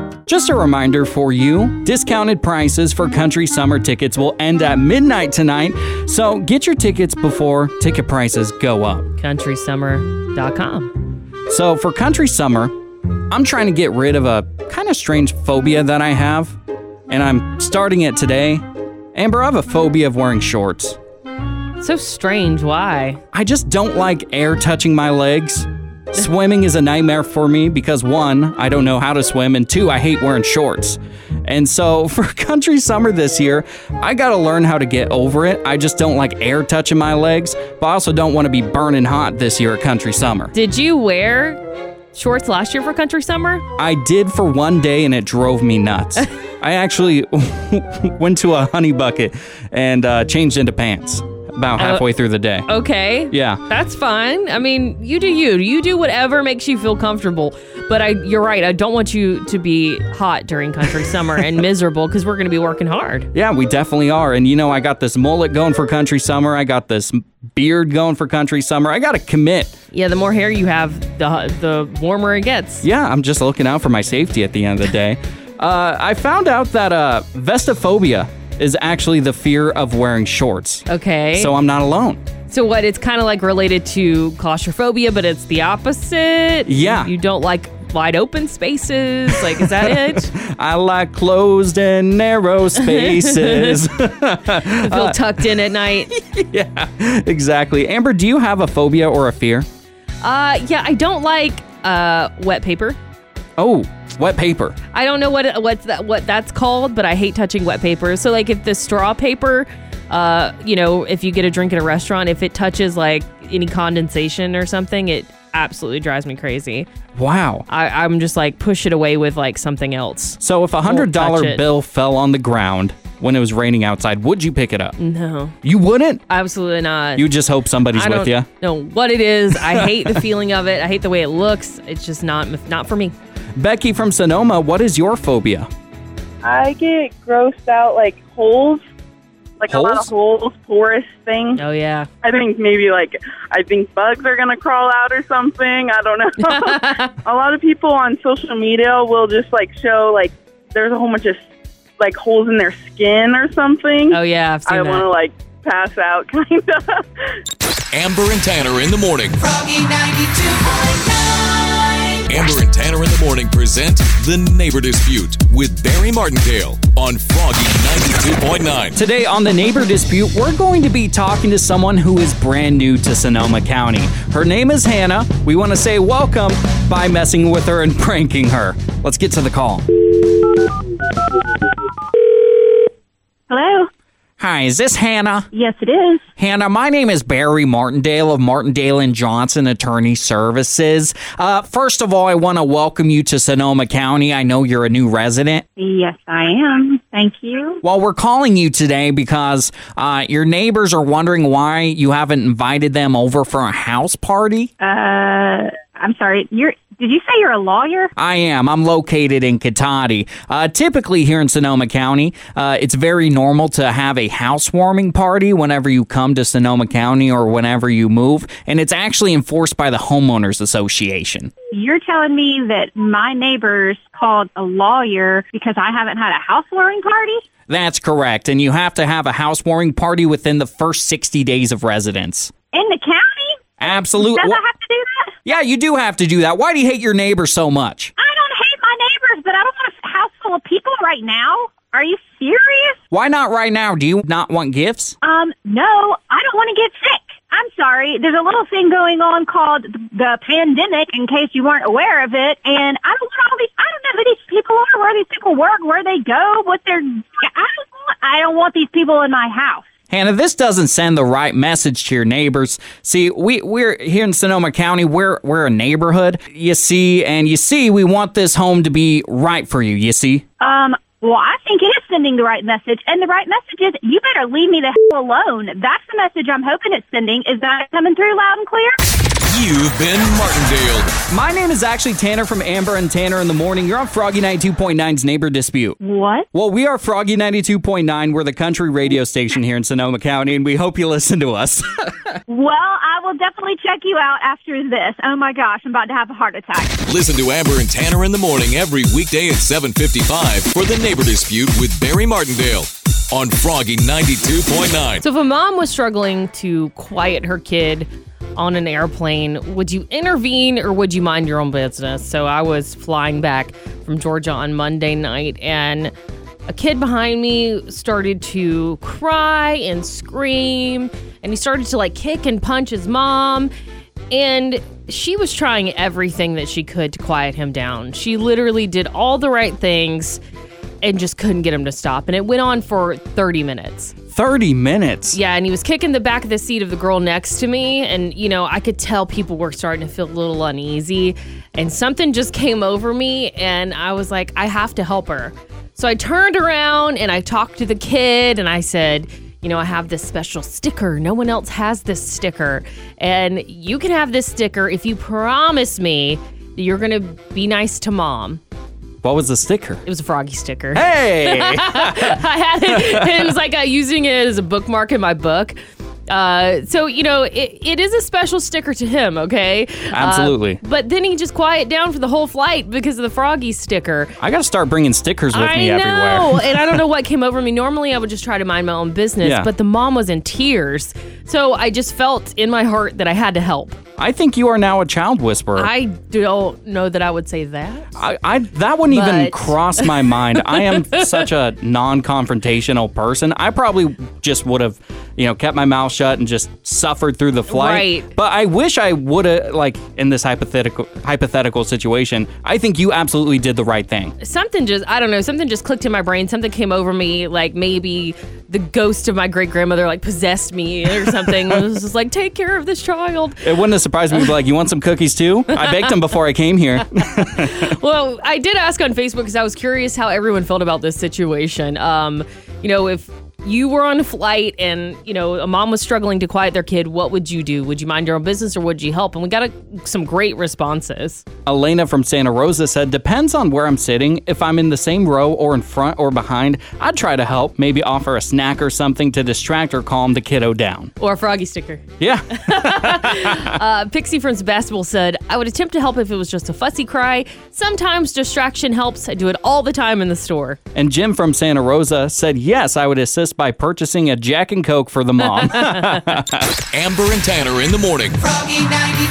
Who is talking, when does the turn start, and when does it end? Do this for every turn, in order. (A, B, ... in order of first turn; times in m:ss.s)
0:00.2-0:09.1 A
0:09.2-0:10.9 B
0:11.5-0:12.8 A
0:13.3-0:16.6 A
0:17.1-0:21.0 A
0:21.8-0:23.2 B
0:23.3-0:40.5 A
0:40.5-0:41.6 B
0:42.1-0:43.6 B
0:43.8-0:52.7 A
0:51.8-0:52.0 B
0:52.7-1:03.3 B
0:53.3-0:53.6 A
1:03.3-1:09.7 A
1:09.9-1:12.8 B
1:12.8-1:22.2 A
1:20.9-1:21.5 B
1:22.5-1:30.3 B
1:26.6-1:27.1 A
1:29.3-1:35.2 A
1:32.8-1:33.8 B
1:34.7-1:36.1 B
1:36.1-1:39.7 A
1:40.2-1:43.0 B
1:43.6-1:44.8 A
1:44.9-1:56.9 B
1:57.2-1:57.7 A
1:57.7-2:01.6 B
2:00.4-2:05.0 A
2:05.0-2:05.6 B
2:05.6-2:06.2 A
2:06.3-2:07.3 B
2:07.2-2:08.5 A
2:07.9-2:13.1 B
2:09.7-2:10.1 A
2:13.6-2:15.7 A
2:16.4-2:18.8 C
2:19.6-2:21.6 C
2:19.7-2:20.1 A
2:21.6-2:22.1 B
2:22.2-2:31.4 C
2:26.4-2:27.1 B
2:32.0-2:37.0 C
2:34.1-2:35.0 B
2:37.9-2:39.4 D
2:42.2-2:49.0 D
2:49.0-2:59.8 A
3:03.5-3:03.9 E
3:04.4-3:05.5 A
3:05.5-3:06.2 E
3:06.4-3:15.6 A
3:15.8-3:17.8 E
3:17.8-3:24.7 A
3:24.8-3:28.1 E
3:28.2-3:41.5 A
3:41.7-3:47.4 E
3:47.7-3:52.5 A
3:52.7-3:53.6 E
3:53.8-3:54.6 A
3:54.1-3:55.4 E
3:55.4-3:58.1 A
3:58.2-4:03.0 E
4:03.1-4:05.1 A
4:05.2-4:19.8 E
4:20.1-4:30.4 A
4:30.6-4:39.0 E
4:39.4-4:41.2 D
4:41.3-4:46.0 A
4:46.0-4:46.5 E
4:46.5-4:51.9 A
4:52.5-4:57.0 E
4:57.0-5:05.2 D
5:05.2-5:16.1 B
5:16.7-5:23.7 B
5:24.3-5:30.4 B
5:31.0-5:34.1 B
5:34.3-5:35.4 A
5:35.3-5:58.6 B
5:59.2-6:00.0 A
6:00.0-6:05.8 B
6:00.9-6:03.5 A
6:06.3-6:14.4 B
6:10.1-6:10.8 A
6:14.4-6:17.0 A
6:15.5-6:24.0 B
6:19.4-6:19.7 A
6:24.2-6:25.9 A
6:25.8-6:28.2 B
6:28.2-6:44.3 A
6:29.1-6:30.1 B
6:37.7-6:38.3 B
6:44.4-6:53.6 B
6:53.6-6:57.9 A
6:55.7-6:56.1 B
6:57.6-7:11.4 B
7:11.6-7:21.1 A
7:21.2-7:30.8 B
7:22.2-7:23.8 A
7:30.9-7:36.6 A
7:35.6-7:36.2 B
7:36.9-7:38.4 D